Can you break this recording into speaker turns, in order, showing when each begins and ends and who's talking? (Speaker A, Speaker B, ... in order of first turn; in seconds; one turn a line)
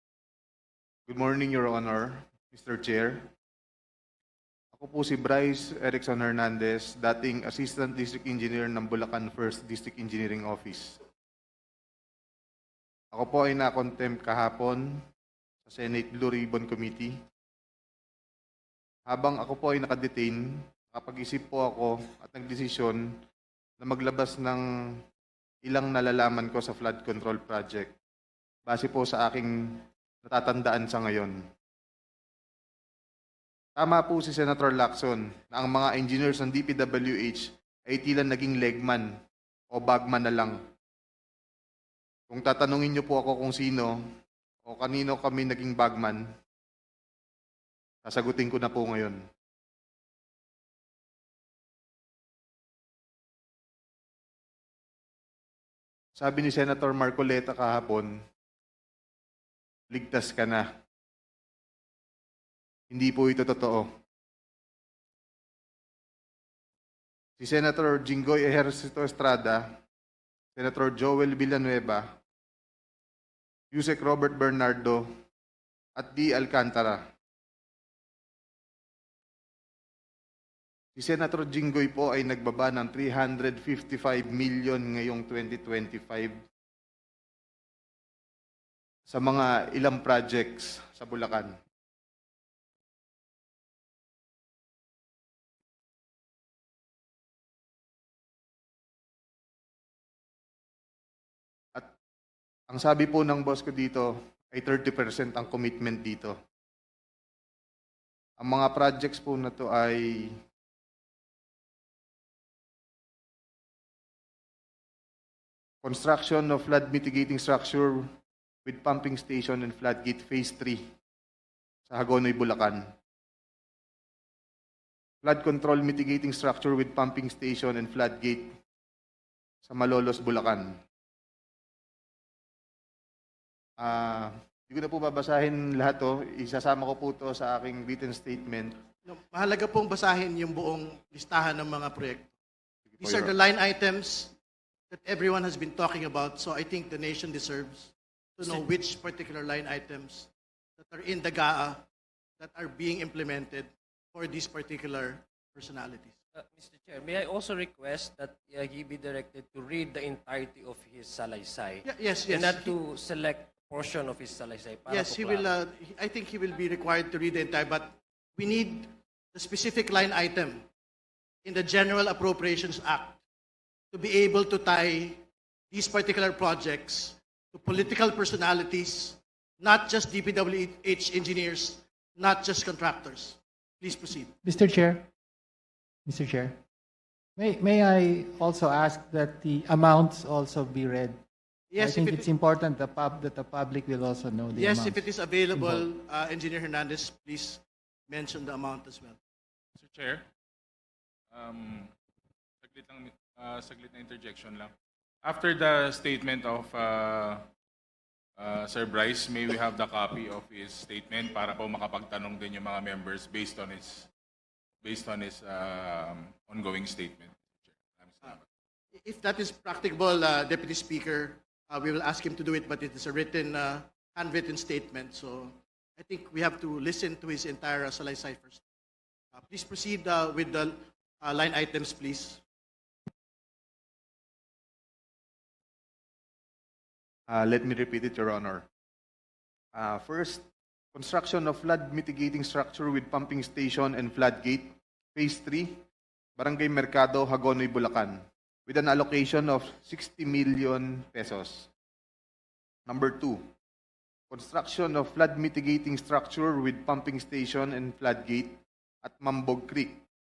Speaker A: 1.1-3.3
Speaker A: 4.7-11.0
Speaker A: 13.1-14.9
Speaker A: 15.7-17.1
Speaker A: 19.1-23.0
Speaker A: 23.8-24.6
Speaker A: 25.7-27.9
Speaker A: 28.7-31.4
Speaker A: 33.8-39.1
Speaker A: 39.7-40.6
Speaker A: 42.3-44.0
Speaker A: 44.6-46.2
Speaker A: 48.0-49.2
Speaker A: 56.2-58.1
Speaker A: 59.9-60.6
Speaker A: 62.9-63.9
Speaker A: 67.4-69.6
Speaker A: 70.6-72.1
Speaker A: 73.7-75.1
Speaker A: 76.0-77.0
Speaker A: 81.0-86.4
Speaker A: 89.1-91.5
Speaker A: 102.7-106.3
Speaker A: 108.4-110.3
Speaker A: 115.8-118.0
Speaker A: 118.7-120.8
Speaker A: 121.9-122.8
Speaker A: 125.2-128.5
Speaker A: 129.7-130.7
Speaker A: 133.8-138.8
Speaker B: 139.1-142.3
Speaker A: 142.9-143.3
Speaker B: 143.0-144.3
Speaker B: 144.9-151.8
Speaker B: 152.4-156.1
Speaker C: 156.3-165.5
Speaker B: 161.8-162.7
Speaker B: 164.9-170.7
Speaker B: 171.4-173.2
Speaker B: 173.9-184.3
Speaker D: 184.4-185.0
Speaker D: 186.1-186.5
Speaker D: 187.4-191.2
Speaker B: 191.7-192.3
Speaker D: 191.8-195.0
Speaker B: 194.5-199.2
Speaker D: 195.6-195.8
Speaker E: 199.8-200.2
Speaker E: 201.3-201.9
Speaker E: 202.6-204.7
Speaker E: 205.2-207.5
Speaker E: 208.4-214.1
Speaker E: 214.8-218.4
Speaker B: 218.9-228.6
Speaker B: 229.3-232.4
Speaker A: 237.3-238.7
Speaker A: 239.8-245.8
Speaker A: 246.4-248.2
Speaker A: 248.7-251.7
Speaker A: 252.9-253.4
Speaker A: 254.3-260.0